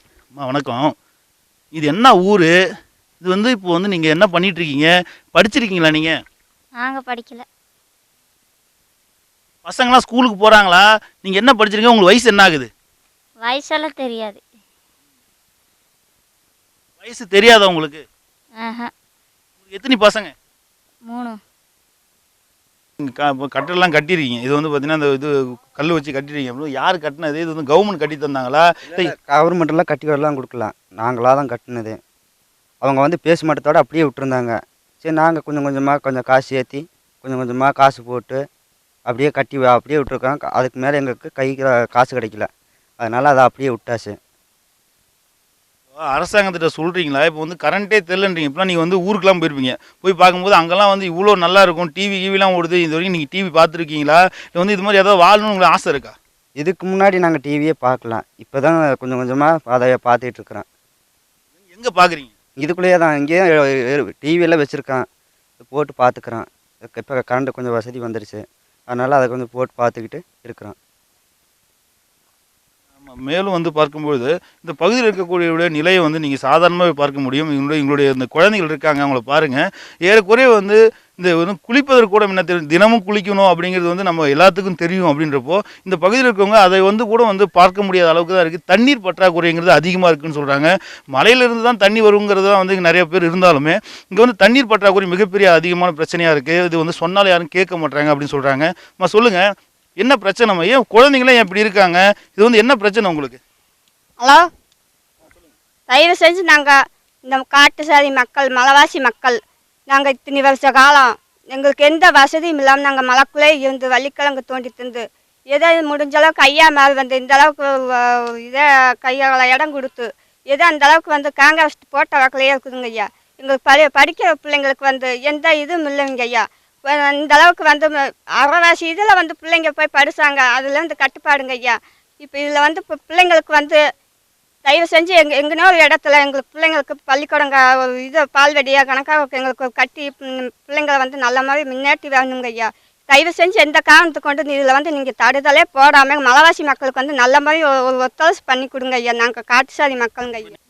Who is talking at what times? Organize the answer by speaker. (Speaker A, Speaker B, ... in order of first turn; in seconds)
Speaker A: 0.4-0.9, 1.7-2.5, 3.2-6.1, 9.6-12.7, 17.0-18.0, 19.7-20.3, 23.0-29.1, 46.1-56.1, 61.7-62.3, 73.0-99.4, 100.0-103.4
Speaker B: 6.8-7.4, 13.4-14.4, 18.6-18.9, 21.1-21.4
Speaker C: 28.9-32.0, 32.8-38.4, 39.1-42.5, 43.0-44.1, 56.6-60.6, 62.6-65.0, 65.6-70.7
Speaker D: 104.2-104.4, 105.9-106.8, 107.3-109.4, 109.9-133.8, 134.6-150.5